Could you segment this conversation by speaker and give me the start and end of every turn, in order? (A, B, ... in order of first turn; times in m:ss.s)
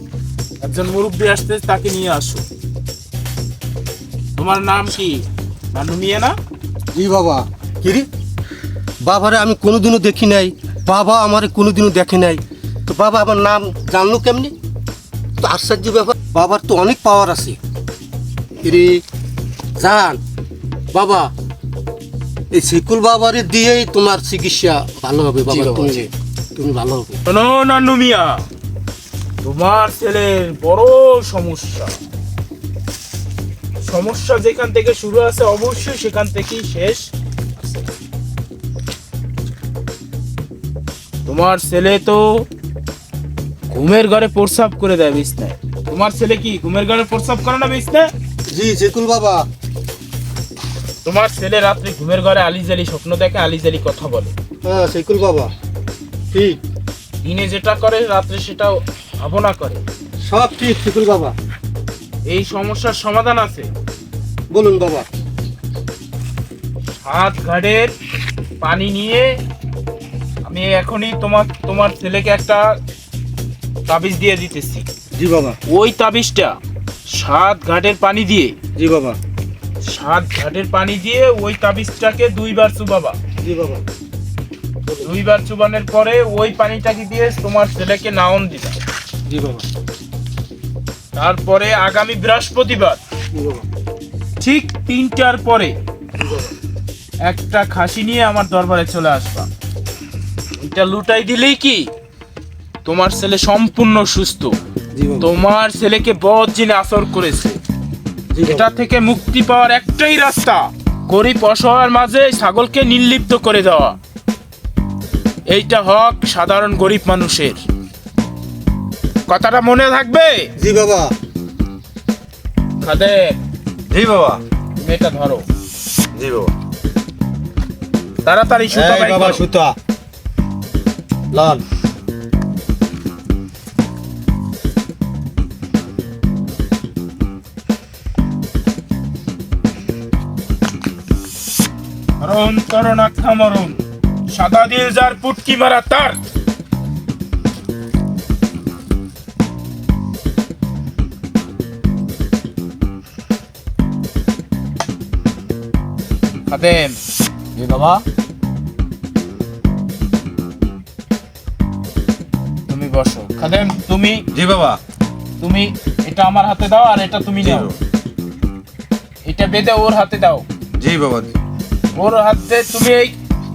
0:00.6-0:02.4 A
0:04.4-0:06.4 A
0:06.9-0:08.1 B
0:09.0-0:14.5 B
0:15.4-0:17.6 B
0:18.6-0:19.0 B
0:19.8-0:20.2 B
0:20.9-0:21.3 B
0:22.5-0:27.2 B
0:25.5-0:26.0 A
0:27.2-0:28.4 A
0:29.4-0:31.9 A
0:33.8-0:37.9 A
0:41.2-0:42.4 A
0:43.7-0:48.1 A
0:48.5-0:49.5 B
0:51.0-0:54.3 A
0:54.6-0:55.5 B
0:56.3-0:56.6 B
0:57.2-0:59.8 A
1:00.2-1:01.3 B
1:02.3-1:03.7 A
1:04.5-1:05.1 B
1:07.0-1:07.9 A
1:08.6-1:09.3 A
1:10.4-1:12.8 A
1:13.9-1:14.9 A
1:15.1-1:15.6 B
1:15.6-1:16.6 A
1:17.1-1:18.6 A
1:18.8-1:19.2 B
1:19.8-1:23.2 A
1:23.4-1:23.8 B
1:24.9-1:25.1 B
1:25.0-1:28.8 A
1:31.1-1:33.0 A
1:34.4-1:35.8 A
1:37.2-1:39.5 A
1:40.6-1:41.9 A
1:42.8-1:44.6 A
1:45.2-1:47.6 A
1:48.4-1:54.0 A
1:55.5-1:57.6 A
1:59.3-2:00.5 A
2:00.6-2:01.1 B
2:02.8-2:03.4 A
2:03.9-2:04.4 C
2:04.8-2:05.4 A
2:06.2-2:06.5 C
2:08.2-2:09.5 A
2:08.7-2:09.8 B
2:11.3-2:11.6 B
2:22.2-2:23.8 A
2:24.3-2:26.3 A
2:36.5-2:37.0 A
2:37.6-2:38.0 C
2:42.7-2:44.2 A
2:44.3-2:44.8 C
2:45.4-2:47.7 A
2:47.4-2:47.7 C
2:49.2-2:50.4 A
2:50.8-2:51.3 C
2:51.9-2:53.2 A